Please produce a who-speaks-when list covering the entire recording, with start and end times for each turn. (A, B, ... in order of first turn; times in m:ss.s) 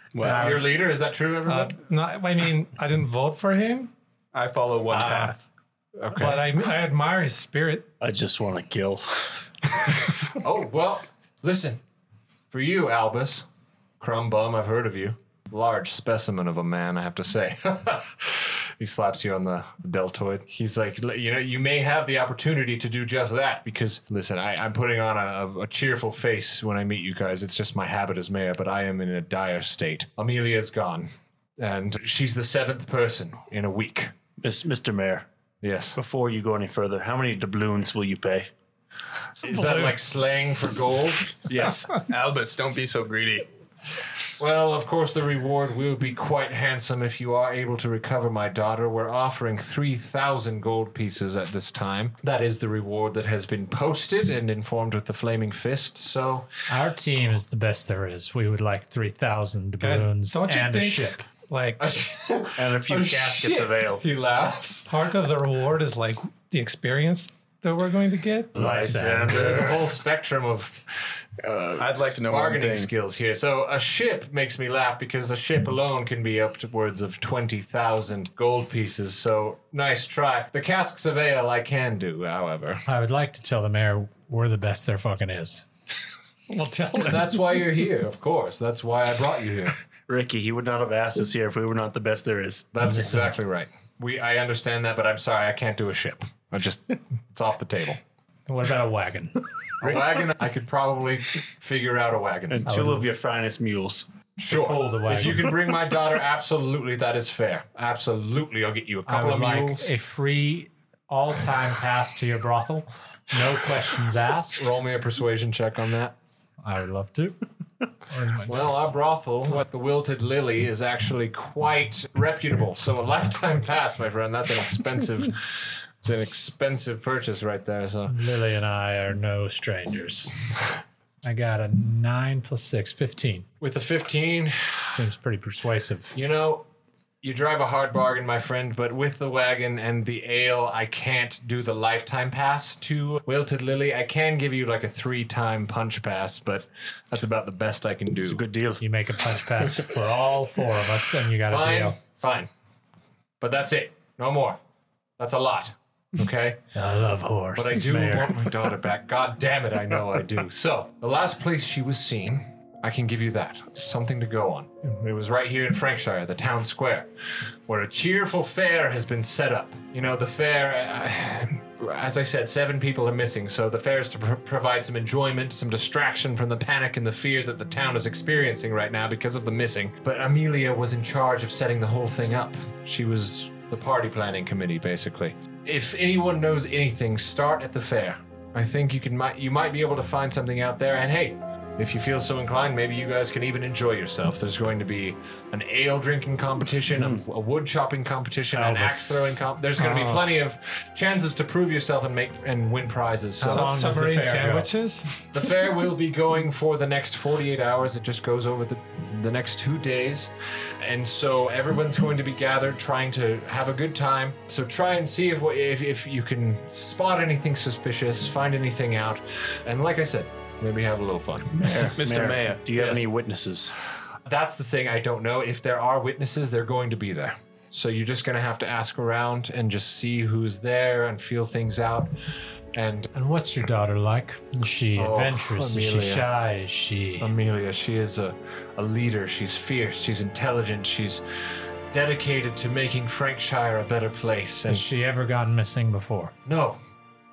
0:00.1-0:00.5 A
0:00.2-0:00.6 B
0:00.2-0:01.7 C
0:01.4-0:03.9 D
0:04.3-0:05.4 A
0:04.9-0:05.3 D
0:06.0-0:06.5 C
0:06.1-0:07.9 D
0:08.0-0:09.6 E
0:10.3-0:11.8 C
0:12.5-0:13.4 C
0:14.0-0:34.1 C
0:34.4-0:35.3 E
0:35.6-0:36.0 C
0:35.9-0:38.5 E
0:39.4-0:41.3 C
0:41.5-0:43.5 A
0:41.5-0:41.8 E
0:44.4-0:56.5 C
0:56.7-1:01.2 B
0:59.8-1:02.0 D
1:01.8-1:04.9 C
1:02.6-1:04.0 E
1:04.9-1:08.6 D
1:08.5-1:09.7 B
1:08.5-1:09.8 E
1:09.3-1:22.8 C
1:11.8-1:12.9 A
1:22.9-1:25.6 B
1:26.5-1:27.3 D
1:27.0-1:29.8 C
1:30.1-1:32.7 E
1:32.7-1:38.0 C
1:32.8-1:33.3 B
1:38.5-1:39.4 B
1:39.8-1:42.7 C
1:42.5-1:44.0 E
1:42.6-1:43.0 B
1:44.4-1:49.9 C
1:44.5-1:45.5 B
1:49.0-1:54.6 B
1:54.6-1:56.1 C
1:56.6-1:57.4 B
1:58.1-1:58.7 B
1:58.5-2:08.1 C
2:08.1-2:10.3 B
2:11.2-2:13.4 B
2:13.6-2:15.0 C
2:14.8-2:16.2 B
2:16.1-2:16.6 C
2:17.2-2:28.4 C
2:28.2-2:28.8 E
2:28.8-2:32.0 B
2:31.4-2:32.5 C
2:33.4-2:34.6 C
2:35.2-2:36.6 C
2:36.7-2:38.5 B
2:37.5-2:47.1 C
2:47.7-3:23.9 C
3:18.5-3:19.4 B
3:19.8-3:20.3 D
3:23.4-3:25.3 D
3:23.4-3:24.7 B
3:25.3-3:41.8 C
3:41.6-3:43.7 E
3:42.0-3:42.6 A
3:42.7-3:43.0 C
3:44.2-3:52.1 C
3:52.7-3:53.1 C
3:53.1-3:57.3 B
3:55.0-3:56.2 C
3:57.2-4:01.2 C
4:01.9-4:04.8 C
4:04.7-4:06.3 B
4:06.4-4:06.8 C